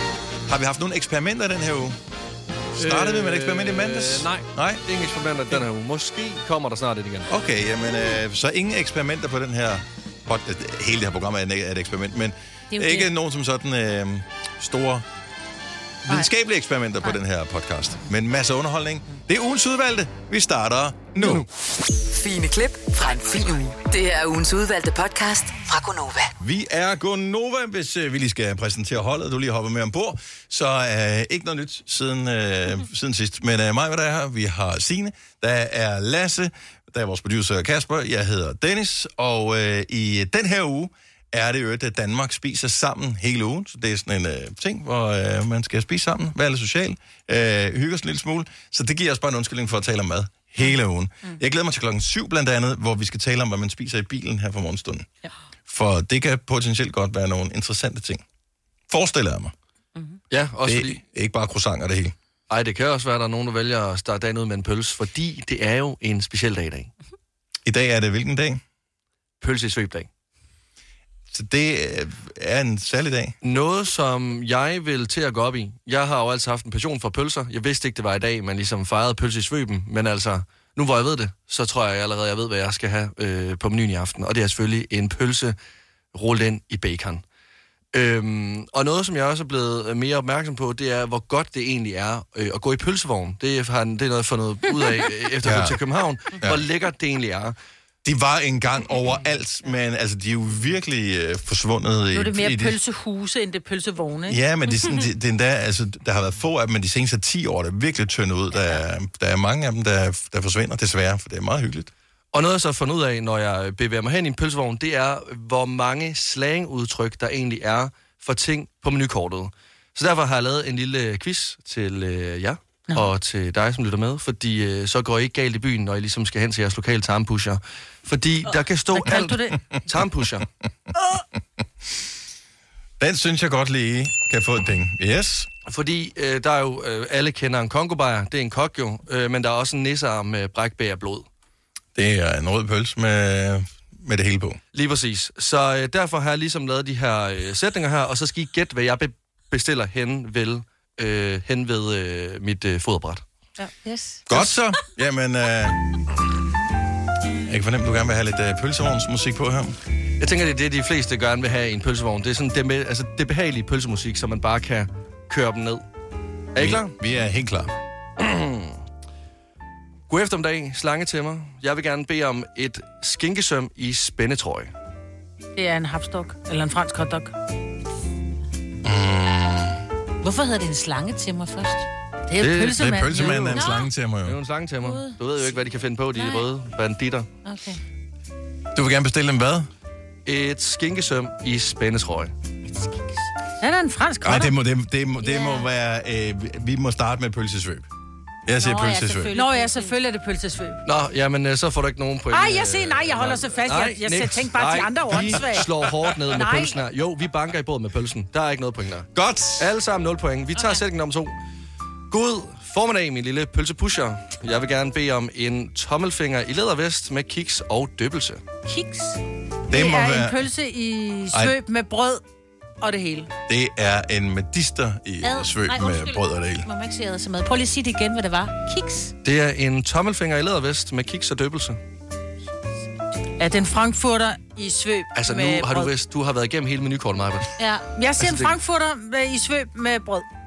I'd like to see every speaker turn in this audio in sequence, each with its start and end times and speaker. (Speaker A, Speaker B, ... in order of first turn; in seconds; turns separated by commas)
Speaker A: 0.5-2.0, Speaker A: 2.8-4.8, Speaker B: 2.8-7.3, Speaker A: 7.3-15.1, Speaker C: 12.7-13.1, Speaker A: 16.1-21.5, Speaker B: 21.2-21.5, Speaker D: 22.0-26.3, Speaker A: 26.4-55.1, Speaker A: 55.7-58.2, Speaker A: 58.9-59.5, Speaker B: 60.3-61.0, Speaker A: 60.6-62.1, Speaker B: 62.5-66.9, Speaker A: 67.7-68.6, Speaker B: 69.4-70.1, Speaker A: 71.3-73.4, Speaker B: 73.4-85.6, Speaker B: 86.1-87.2, Speaker B: 87.9-97.6, Speaker A: 95.4-95.8, Speaker A: 98.0-102.8, Speaker C: 102.1-104.4, Speaker A: 104.3-111.9, Speaker B: 112.3-130.5, Speaker C: 128.9-129.6, Speaker A: 133.0-135.5, Speaker B: 135.7-141.3, Speaker A: 141.9-144.6, Speaker B: 144.7-153.2, Speaker E: 153.8-154.2, Speaker A: 154.3-155.8, Speaker A: 157.4-159.8, Speaker B: 160.2-165.8, Speaker B: 166.6-166.9, Speaker A: 166.6-167.7, Speaker B: 168.2-168.8, Speaker B: 170.1-174.7, Speaker C: 175.6-177.3, Speaker A: 178.8-179.8, Speaker E: 180.2-181.9, Speaker C: 182.3-183.6, Speaker B: 182.4-182.8, Speaker A: 182.6-184.4, Speaker E: 183.4-183.9, Speaker B: 184.2-187.3, Speaker E: 184.8-185.6, Speaker E: 186.1-186.5, Speaker E: 187.4-187.8, Speaker A: 188.8-189.7, Speaker B: 190.3-192.3, Speaker E: 192.7-193.3, Speaker C: 193.6-194.5, Speaker A: 194.2-197.9, Speaker E: 195.2-195.7, Speaker A: 198.5-199.3, Speaker E: 198.6-199.9, Speaker C: 199.3-200.8, Speaker B: 200.9-211.4, Speaker C: 202.3-205.7, Speaker C: 206.3-206.8, Speaker A: 209.1-209.7, Speaker E: 210.6-210.8, Speaker B: 212.1-218.4, Speaker E: 218.7-219.2, Speaker A: 219.7-220.5, Speaker C: 219.7-222.2, Speaker A: 221.3-221.6, Speaker C: 222.8-223.3, Speaker A: 223.5-226.7, Speaker E: 225.2-229.1, Speaker B: 229.2-231.8, Speaker C: 233.4-235.9, Speaker B: 235.2-237.5, Speaker E: 237.6-237.9, Speaker C: 238.0-240.3, Speaker B: 238.2-238.6